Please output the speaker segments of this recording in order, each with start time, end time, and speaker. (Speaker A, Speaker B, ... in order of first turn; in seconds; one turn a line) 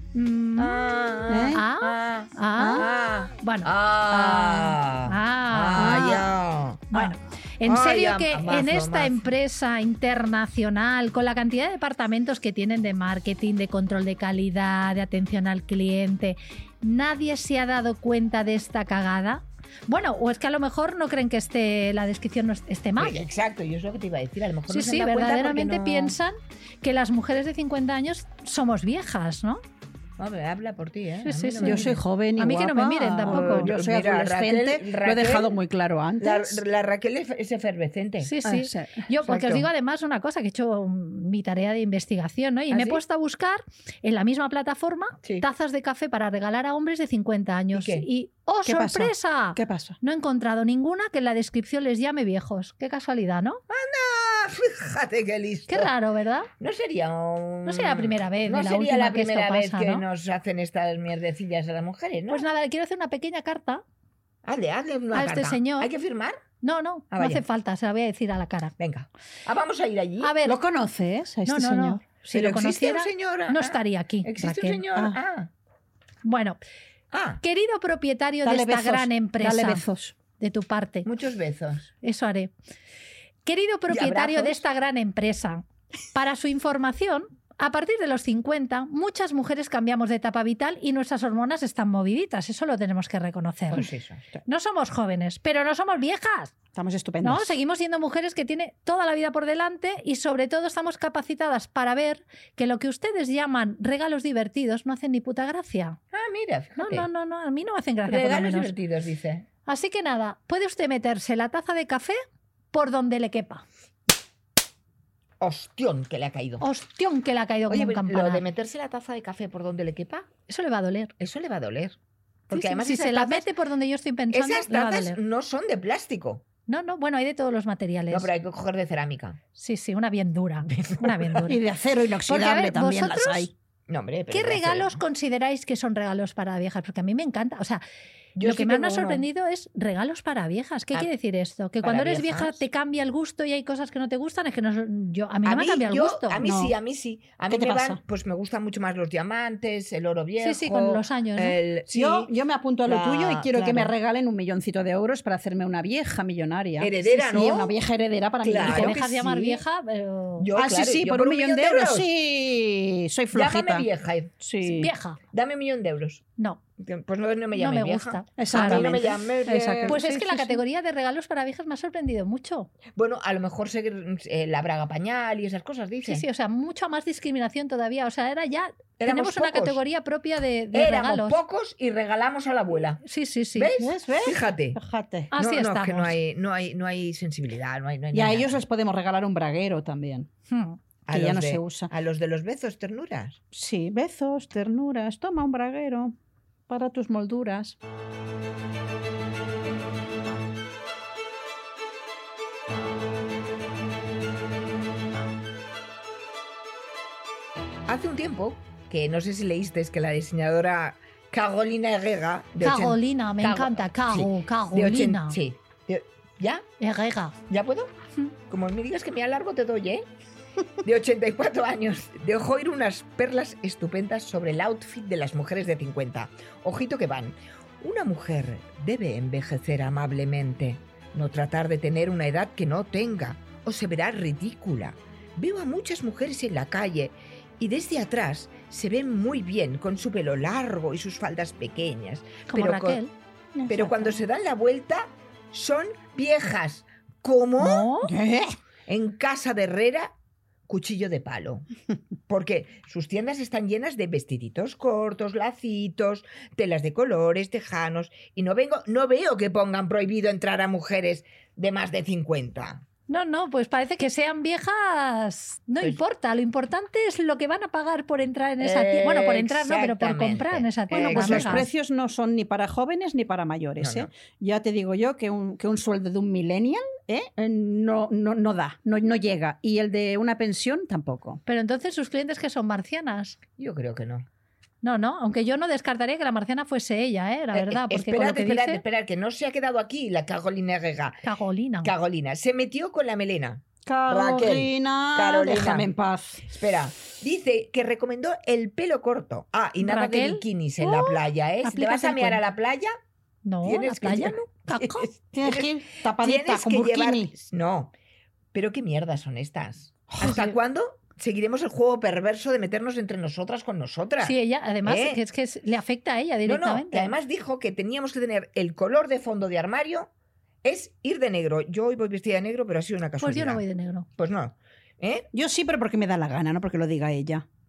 Speaker A: 0.1-3.7
Speaker B: 0.6-6.9
Speaker C: 1.3-1.6
Speaker C: 2.6-2.9
Speaker C: 4.1-4.8
Speaker A: 5.1-6.2
Speaker C: 5.8-6.3
Speaker A: 6.9-23.2
Speaker B: 7.6-9.2
Speaker B: 23.0-26.1
Speaker A: 24.7-29.6
Speaker B: 30.2-32.0
Speaker A: 31.2-33.7
Speaker C: 31.6-36.6
Speaker B: 33.3-35.6
Speaker B: 36.2-38.4
Speaker A: 38.2-53.6
Speaker C: 38.4-39.1
Speaker B: 39.2-39.7
Speaker B: 42.7-43.0
Speaker B: 47.7-48.1
Speaker C: 48.6-50.0
Speaker B: 53.7-55.9
Speaker A: 55.7-56.5
Speaker B: 56.6-62.4
Speaker A: 57.6-60.0
Speaker A: 62.3-63.8
Speaker B: 64.4-66.4
Speaker A: 65.1-65.9
Speaker A: 66.6-68.7
Speaker B: 67.1-67.4
Speaker B: 68.8-70.3
Speaker A: 70.2-70.6
Speaker C: 70.4-72.0
Speaker A: 71.5-74.8
Speaker B: 72.3-75.5
Speaker A: 76.2-76.6
Speaker B: 77.1-77.4
Speaker A: 77.4-79.8
Speaker C: 78.4-80.1
Speaker A: 80.4-81.1
Speaker B: 81.0-81.9
Speaker A: 82.0-82.5
Speaker A: 83.4-93.9
Speaker B: 83.9-84.6
Speaker B: 93.7-94.2
Speaker A: 94.5-96.6
Speaker C: 96.7-97.6
Speaker A: 97.2-106.0
Speaker B: 106.1-107.1
Speaker A: 106.8-108.7
Speaker B: 108.1-109.5
Speaker A: 109.7-112.2
Speaker A: 112.7-113.6
Speaker B: 115.4-116.7
Speaker A: 116.6-118.4
Speaker B: 117.7-120.3
Speaker A: 120.5-121.1
Speaker B: 121.2-122.0
Speaker B: 122.5-123.5
Speaker A: 122.5-125.2
Speaker B: 124.3-126.4
Speaker A: 126.7-128.3
Speaker B: 128.1-129.4
Speaker A: 129.6-131.6
Speaker B: 130.7-131.4
Speaker C: 131.4-133.5
Speaker A: 132.3-133.5
Speaker B: 133.9-135.0
Speaker A: 134.3-137.8
Speaker B: 138.4-139.2
Speaker A: 138.4-146.4
Speaker B: 141.8-142.6
Speaker B: 145.4-152.3
Speaker C: 146.4-146.7
Speaker C: 147.5-148.0
Speaker A: 150.4-151.6
Speaker C: 151.9-159.6
Speaker B: 152.8-153.9
Speaker B: 156.8-157.8
Speaker B: 158.4-158.9
Speaker A: 158.6-160.5
Speaker B: 160.4-162.1
Speaker C: 160.6-163.9
Speaker B: 163.3-164.3
Speaker C: 164.4-164.9
Speaker A: 164.6-165.2
Speaker B: 165.3-166.2
Speaker B: 166.8-170.0
Speaker A: 167.6-168.9
Speaker C: 168.4-170.6
Speaker A: 169.9-172.7
Speaker B: 172.9-176.2
Speaker A: 176.0-181.4
Speaker B: 179.0-179.8
Speaker B: 180.7-183.0
Speaker A: 183.0-183.7
Speaker B: 183.6-184.8
Speaker C: 183.8-185.3
Speaker A: 185.3-186.2
Speaker B: 185.4-188.6
Speaker C: 188.1-190.3
Speaker A: 190.5-190.8
Speaker B: 191.1-193.4
Speaker C: 191.1-191.9
Speaker C: 193.5-196.1
Speaker C: 196.7-197.8
Speaker B: 207.9-216.6
Speaker A: 212.6-215.4
Speaker A: 216.8-217.3
Speaker B: 217.5-217.9
Speaker B: 218.5-220.1
Speaker B: 220.8-243.0
Speaker A: 242.5-244.1
Speaker B: 243.7-247.9
Speaker A: 247.6-248.1
Speaker C: 248.1-248.6
Speaker B: 248.9-250.1
Speaker B: 250.7-251.7
Speaker B: 252.3-262.8
Speaker A: 263.1-271.7
Speaker B: 268.6-271.7
Speaker C: 270.9-281.4
Speaker B: 273.8-274.1
Speaker A: 281.4-283.4
Speaker B: 283.6-284.2
Speaker A: 284.8-288.8
Speaker B: 287.5-291.2
Speaker A: 291.2-291.9
Speaker B: 291.8-295.9
Speaker C: 293.9-296.5
Speaker B: 296.5-302.9
Speaker A: 299.8-302.4
Speaker A: 303.4-305.1
Speaker B: 303.6-307.9
Speaker C: 305.3-307.3
Speaker B: 308.5-315.2
Speaker C: 310.1-310.6
Speaker A: 314.2-317.1
Speaker B: 316.4-320.1
Speaker B: 320.6-323.6
Speaker A: 323.2-324.1
Speaker B: 324.2-325.3
Speaker C: 325.3-327.4